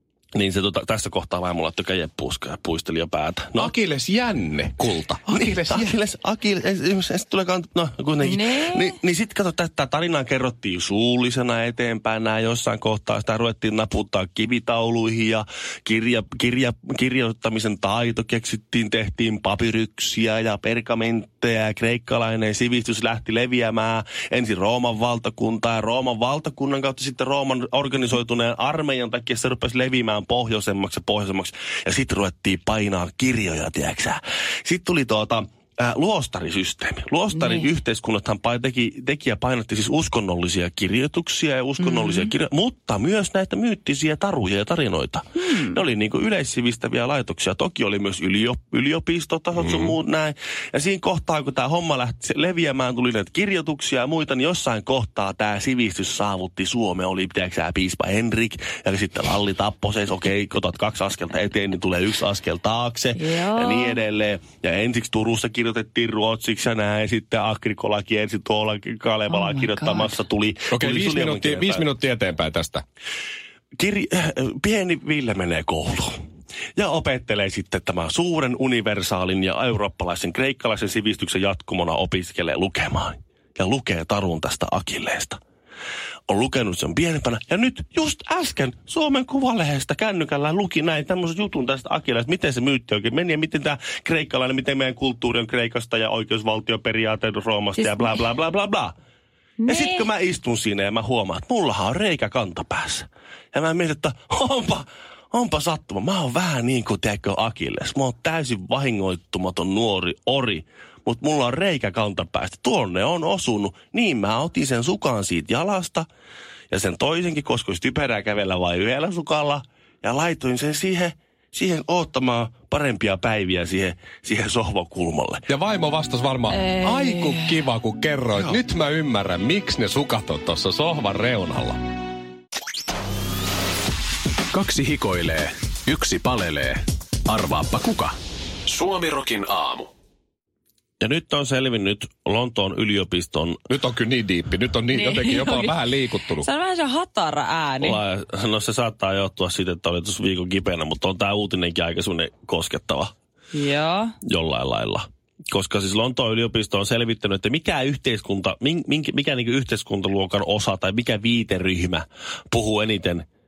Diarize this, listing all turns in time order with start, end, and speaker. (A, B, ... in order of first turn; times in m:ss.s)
0:00.3-0:03.7 A
0:03.6-0:05.9 B
0:05.3-1:11.9 A
0:08.2-0:09.0 C
0:37.3-0:37.7 C
0:41.8-0:42.3 C
0:45.4-0:45.8 C
0:49.6-0:49.9 B
1:03.1-1:04.0 C
1:09.3-1:10.1 C
1:10.7-1:12.8 B
1:13.8-1:16.1 A
1:16.8-1:25.4 A
1:26.3-1:38.9 A
1:37.8-1:38.2 C
1:39.6-1:40.1 C
1:39.7-1:56.1 A
1:56.7-2:05.4 A
2:05.5-2:11.8 B
2:06.5-2:07.7 C
2:14.5-2:18.1 D
2:18.6-2:19.9 D
2:21.0-2:23.6 A
2:23.7-2:26.4 B
2:24.9-2:25.8 C
2:26.4-2:28.0 C
2:27.8-2:33.1 A
2:33.5-2:34.2 C
2:34.3-2:43.2 A